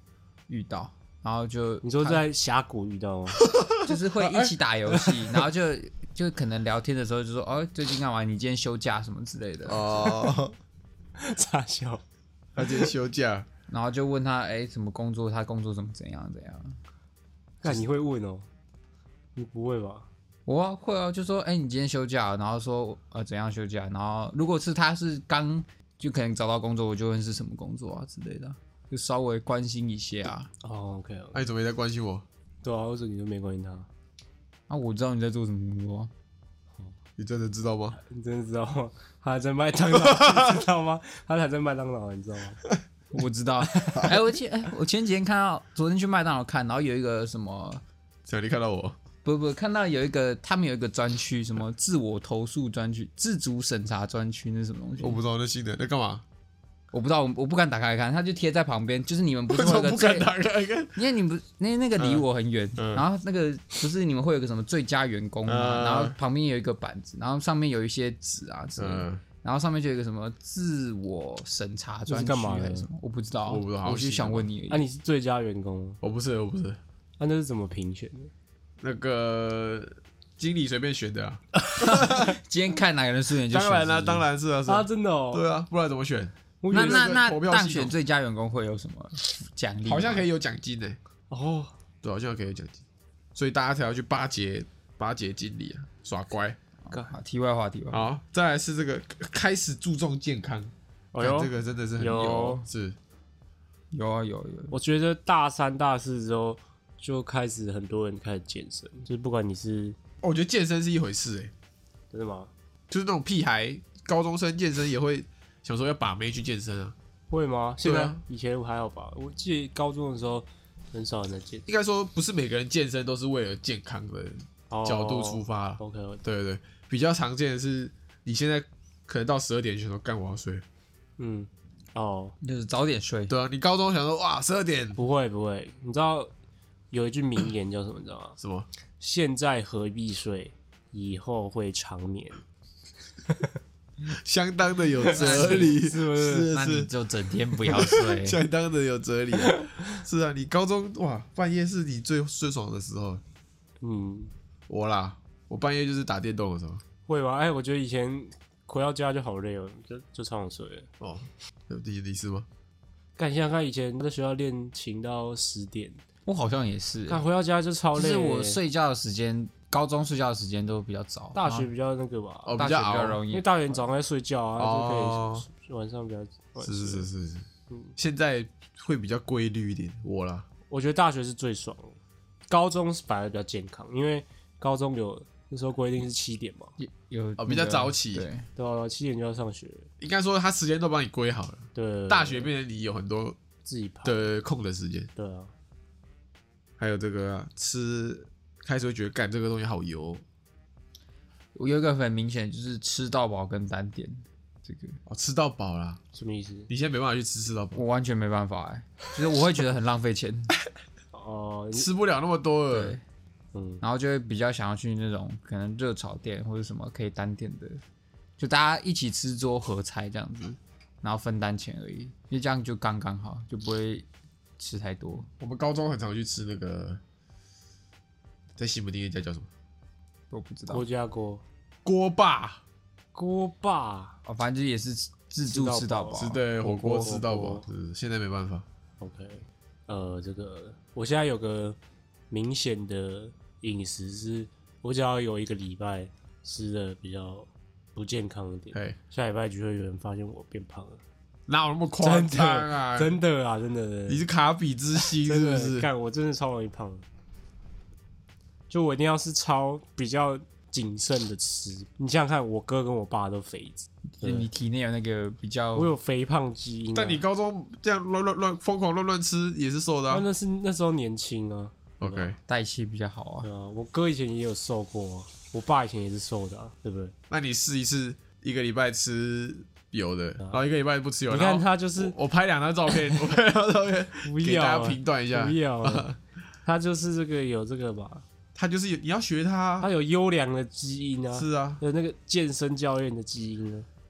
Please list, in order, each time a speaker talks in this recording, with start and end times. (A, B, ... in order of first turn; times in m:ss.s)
0:00.5-0:02.2 A
0:01.8-0:03.4 B
0:03.4-0:04.5 C
0:03.8-0:10.2 A
0:09.6-0:10.5 C
0:11.2-0:12.0 B
0:12.6-0:13.4 C
0:13.7-0:16.8 A
0:17.6-0:18.4 B
0:19.4-0:20.1 B
0:20.4-0:30.5 A
0:30.6-0:31.4 B
0:31.3-0:32.2 C
0:32.6-0:33.9 B
0:34.7-0:36.1 A
0:37.2-0:38.0 C
0:38.0-0:42.6 B
0:43.1-0:47.8 A
0:43.7-0:44.1 B
0:48.3-0:49.0 C
0:49.2-0:55.2 A
0:55.0-0:56.2 C
0:56.9-1:00.3 A
0:59.5-1:01.0 C
1:01.0-1:14.8 A
1:02.0-1:02.2 C
1:02.8-1:03.0 C
1:05.5-1:06.2 C
1:08.8-1:09.2 C
1:12.1-1:12.9 B
1:13.4-1:14.5 C
1:14.7-1:16.0 B
1:16.0-1:16.8 C
1:17.2-1:18.3 B
1:18.8-1:22.4 C
1:21.8-1:24.2 A
1:23.5-1:27.9 C
1:24.7-1:25.4 B
1:26.6-1:27.1 B
1:26.7-1:30.3 A
1:29.8-1:31.0 C
1:31.3-1:31.7 B
1:32.0-1:32.8 C
1:33.3-1:36.6 C
1:36.9-1:38.1 A
1:37.9-1:43.0 C
1:41.1-1:42.6 B
1:43.9-1:44.7 A
1:44.7-1:50.0 B
1:50.2-1:51.5 C
1:52.1-1:52.5 B
1:52.9-1:56.9 C
1:57.3-2:01.6 B
1:57.8-1:58.2 C
2:01.7-2:10.6 C
2:04.7-2:06.2 B
2:11.2-2:12.3 B
2:12.4-2:13.3 A
2:13.3-2:15.0 C
2:15.0-2:16.3 B
2:16.9-2:18.4 B
2:18.4-2:18.7 C
2:19.0-2:22.4 B
2:24.1-2:26.9 C
2:25.0-2:25.8 A
2:25.1-2:26.5 B
2:26.5-2:28.4 A
2:27.6-2:33.2 C
2:33.8-2:34.3 B
2:34.7-2:36.8 C
2:37.1-2:40.9 B
2:41.0-2:42.5 C
2:43.2-2:46.0 B
2:46.2-2:47.2 A
2:47.1-2:48.6 B
2:47.9-2:51.7 A
2:51.3-2:52.6 B
2:52.4-2:53.2 C
2:52.6-2:53.8 A
2:53.3-2:57.1 B
2:54.6-2:55.4 C
2:56.6-3:00.4 C
3:00.7-3:02.0 B
3:02.5-3:06.7 B
3:06.8-3:08.4 A
3:07.4-3:08.3 C
3:08.6-3:09.9 B
3:10.0-3:13.4 C
3:11.7-3:12.5 B
3:13.6-3:14.2 B
3:14.0-3:15.1 C
3:15.2-3:15.5 B
3:16.8-3:20.2 C
3:21.5-3:25.0 A
3:25.1-3:26.0 C
3:26.1-3:26.7 B
3:26.7-3:27.8 C
3:27.7-3:30.5 A
3:31.1-3:31.9 B
3:31.7-3:33.0 C
3:32.7-3:33.0 A
3:33.5-3:33.8 B
3:33.8-3:37.8 A
3:38.4-3:44.0 A
3:44.6-3:45.3 A
3:45.4-3:47.0 C
3:48.6-3:49.5 C
3:50.3-3:50.8 A
3:50.7-3:51.4 B
3:51.8-3:52.6 C
3:53.1-3:54.2 B
3:54.2-3:56.4 A
3:55.5-3:57.6 B
3:56.2-3:58.6 C
3:59.0-4:01.8 B
4:02.3-4:11.0 B
4:11.5-4:13.2 C
4:12.0-4:14.2 B
4:14.1-4:15.9 C
4:15.0-4:17.0 B
4:18.7-4:24.5 B
4:24.2-4:25.9 A
4:25.7-4:27.2 B
4:26.9-4:30.2 C
4:30.1-4:32.3 B
4:32.0-4:32.4 C
4:32.4-4:33.5 A
4:33.4-4:37.1 B
4:37.3-4:46.2 C
4:41.3-4:42.2 B
4:44.2-4:46.1 B
4:46.6-4:48.2 B
4:48.5-4:49.9 C
4:49.8-4:53.9 B
4:51.3-4:51.8 C